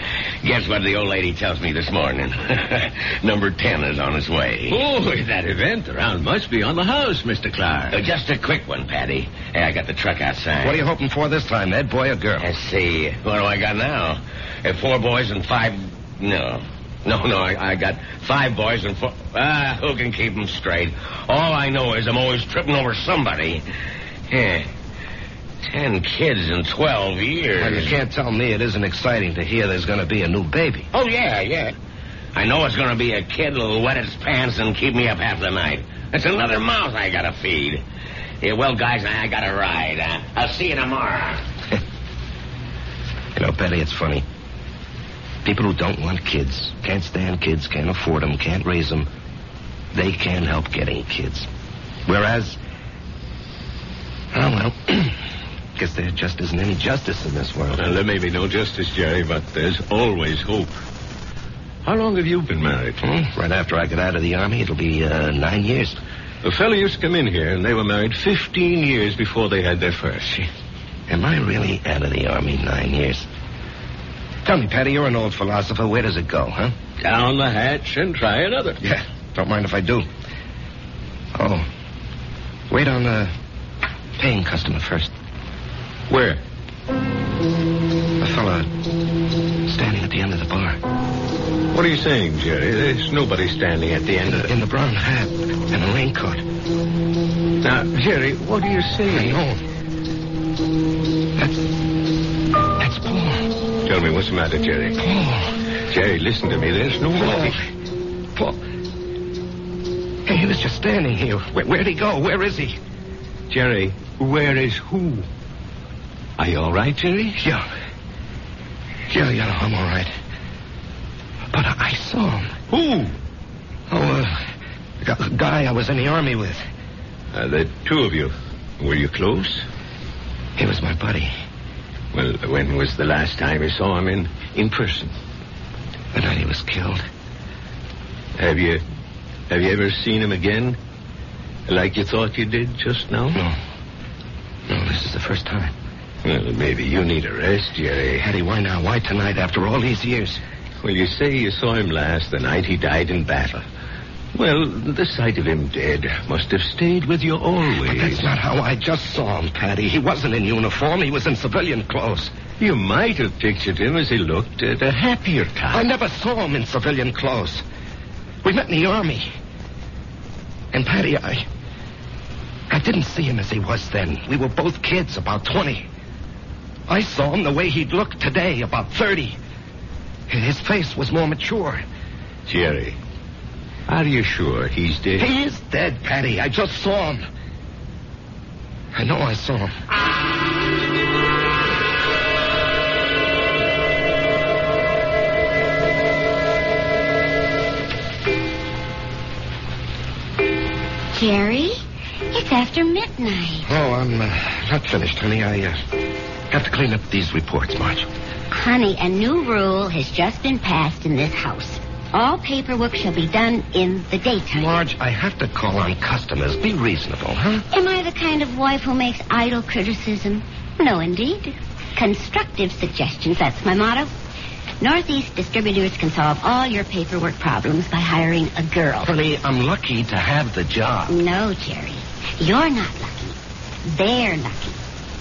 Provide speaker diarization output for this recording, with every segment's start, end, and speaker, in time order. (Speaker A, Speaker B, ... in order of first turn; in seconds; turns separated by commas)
Speaker A: 0.4-4.8, Speaker B: 4.7-8.0, Speaker A: 7.9-10.8, Speaker C: 10.6-12.5, Speaker A: 12.4-23.6, Speaker A: 24.3-24.7, Speaker A: 25.6-27.9, Speaker C: 27.6-30.9, Speaker A: 30.9-31.7, Speaker A: 32.3-37.8, Speaker A: 38.4-41.4, Speaker C: 43.4-44.2, Speaker C: 45.4-49.1, Speaker C: 49.9-51.5, Speaker C: 52.0-52.6, Speaker C: 54.3-55.2, Speaker C: 55.8-58.0, Speaker B: 57.7-60.8, Speaker B: 61.8-63.0, Speaker C: 63.0-66.0, Speaker B: 66.4-70.5, Speaker C: 71.1-73.3, Speaker C: 74.4-76.7, Speaker B: 77.0-78.8, Speaker C: 78.8-80.1, Speaker C: 81.3-81.7, Speaker C: 82.7-83.3, Speaker C: 84.2-85.1, Speaker B: 86.1-86.4, Speaker C: 88.2-88.7, Speaker C: 89.7-90.8, Speaker B: 91.7-94.5, Speaker C: 94.2-96.4, Speaker B: 97.6-99.4, Speaker C: 99.1-99.6, Speaker C: 102.8-103.5, Speaker B: 103.8-105.0, Speaker C: 105.0-105.5, Speaker B: 105.9-107.6, Speaker C: 107.1-107.6, Speaker C: 110.2-112.8, Speaker B: 113.5-115.2, Speaker B: 116.4-117.4, Speaker C: 117.4-117.7, Speaker C: 119.1-120.1, Speaker C: 121.5-122.5, Speaker B: 122.7-123.1, Speaker C: 123.9-124.4, Speaker C: 125.0-126.6, Speaker B: 127.3-129.7, Speaker C: 130.6-131.3, Speaker B: 132.1-135.1, Speaker C: 136.1-137.0, Speaker B: 138.4-138.8, Speaker B: 139.5-140.8, Speaker B: 141.7-143.4, Speaker C: 144.7-145.7, Speaker B: 146.2-148.3, Speaker C: 148.2-150.4, Speaker B: 150.8-153.6, Speaker B: 154.3-158.3, Speaker C: 157.8-162.3, Speaker B: 162.6-165.8, Speaker C: 165.7-167.6, Speaker C: 168.4-169.3, Speaker C: 170.7-171.4, Speaker C: 172.7-175.9, Speaker C: 176.9-179.4, Speaker C: 180.3-181.8, Speaker B: 182.4-183.0, Speaker B: 183.9-185.3, Speaker C: 185.2-187.2, Speaker C: 188.9-189.7, Speaker D: 201.1-203.7, Speaker C: 203.6-205.8, Speaker C: 206.5-208.1, Speaker D: 208.5-214.7, Speaker C: 214.5-217.6, Speaker D: 217.7-224.1, Speaker D: 224.8-229.1, Speaker C: 229.0-231.2, Speaker D: 231.1-234.8